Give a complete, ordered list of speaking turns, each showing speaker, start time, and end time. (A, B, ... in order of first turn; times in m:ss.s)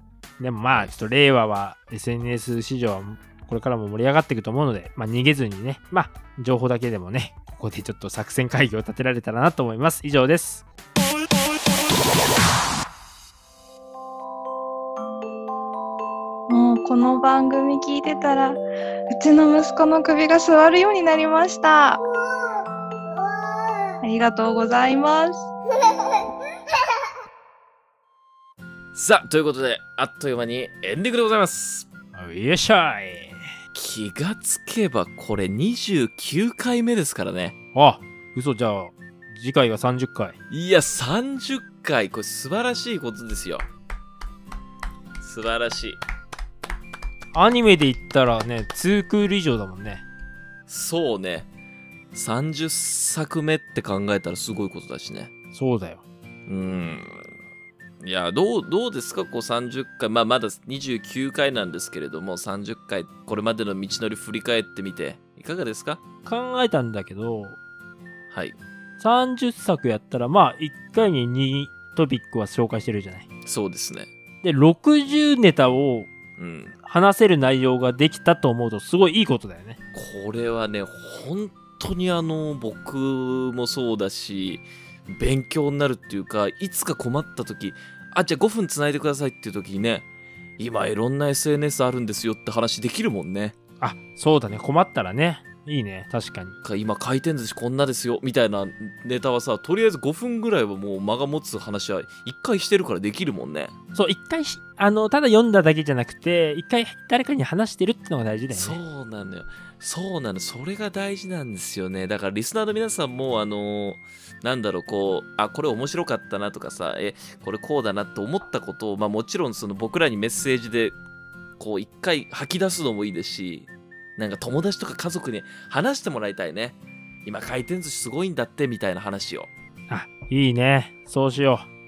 0:00.4-0:10.6 A
0:16.5-0:18.6 B
0:19.1-0:22.0 B
0:24.0-0:25.5 B
0:28.9-0:31.9 C
0:32.1-0:33.5 A
0:33.7-0:37.5 C
0:37.7-0:40.4 A
0:40.5-0:43.7 C
0:45.2-0:46.0 C
0:47.3-0:50.0 A
0:50.7-0:51.5 C
0:52.1-0:55.3 C
0:55.5-0:56.0 A
0:56.5-0:57.3 C
0:58.0-1:06.0 C
1:06.2-1:07.6 A
1:08.3-1:08.6 C
1:09.0-1:13.3 A
1:13.4-1:14.1 C
1:14.4-1:16.1 A
1:16.4-1:16.7 C
1:16.8-1:19.8 A
1:19.9-1:30.1 C
1:30.6-1:33.5 C
1:33.8-1:36.6 A
1:36.6-1:43.7 C
1:43.9-1:48.8 A
1:48.5-2:01.0 C
2:01.6-2:09.5 C
2:09.9-2:11.7 A